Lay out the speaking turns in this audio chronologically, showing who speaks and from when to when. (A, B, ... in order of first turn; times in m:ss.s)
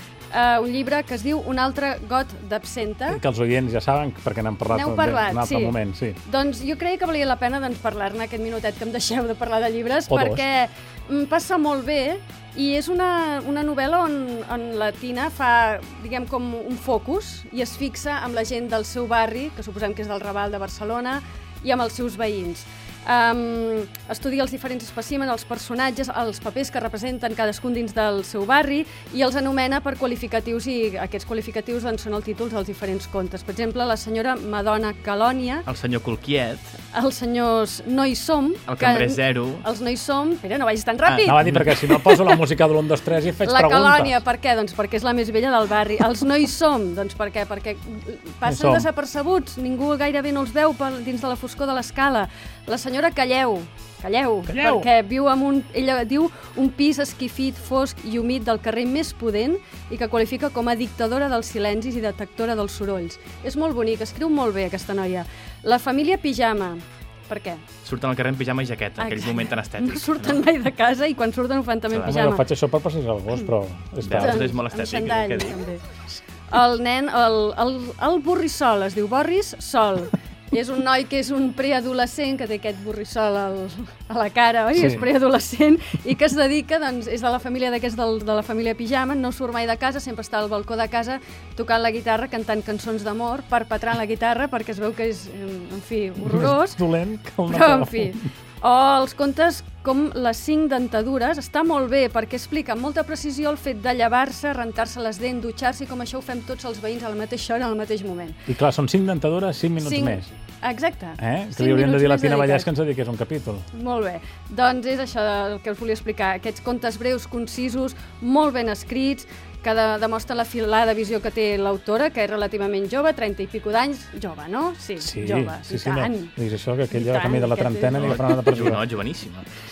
0:00.3-0:03.2 A
0:03.1-0:06.2 B
0:04.7-0:35.7 A
0:10.1-0:10.4 B
0:35.7-0:36.7 C
0:36.9-0:42.4 A
0:38.7-0:39.6 C
0:41.1-0:41.7 C
0:41.2-0:44.2 B
0:43.4-1:07.7 A
0:48.5-0:48.9 B
0:54.5-0:54.9 B
1:07.8-1:10.4 C
1:09.0-1:12.5 A
1:11.9-1:12.2 C
1:12.1-1:14.5 B
1:14.0-1:15.6 C
1:14.1-1:15.8 A
1:16.5-1:36.8 A
1:24.8-1:25.0 B
1:36.2-1:38.2 B
1:37.5-1:48.4 A
1:48.5-1:50.3 B
1:49.8-1:52.7 A
1:51.2-1:53.6 B
1:53.7-2:06.3 A
2:05.0-2:08.8 B
2:06.9-2:08.8 A
2:07.9-2:09.5 C